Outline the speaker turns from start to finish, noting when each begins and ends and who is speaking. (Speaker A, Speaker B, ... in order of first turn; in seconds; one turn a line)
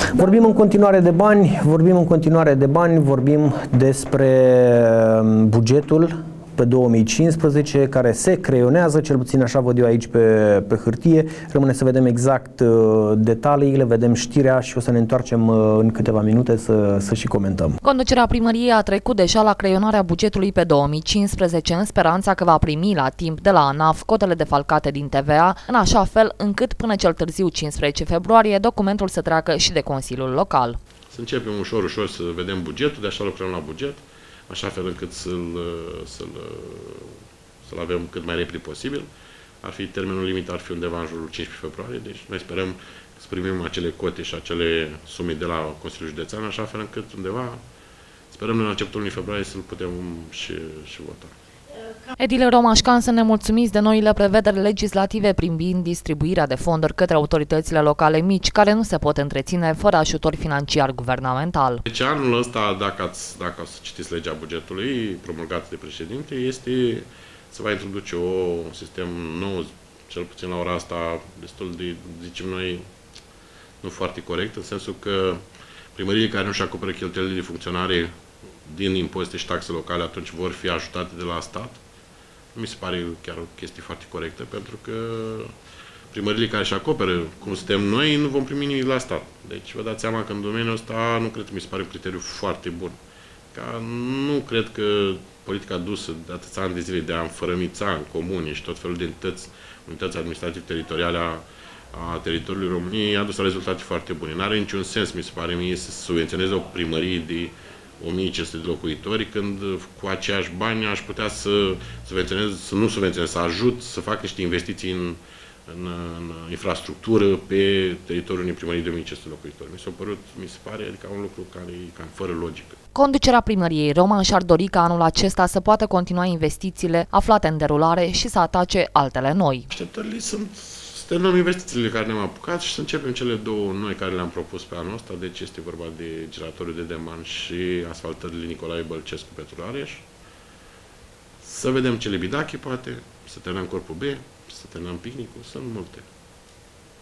Speaker A: 0.1-17.8
Speaker B: 17.8-30.8
Speaker C: 31.1-37.1
Speaker C: 37.7-39.1
Speaker C: 39.6-47.6
Speaker C: 48.3-51.3
Speaker B: 52.2-61.8
Speaker C: 61.9-72.9
Speaker C: 73.8-75.4
Speaker C: 76.0-78.1
Speaker C: 78.7-81.8
Speaker C: 82.5-85.5
Speaker C: 86.1-93.0
Speaker C: 93.5-122.8
Speaker B: 123.0-129.7
Speaker C: 129.7-140.1
Speaker C: 141.4-146.1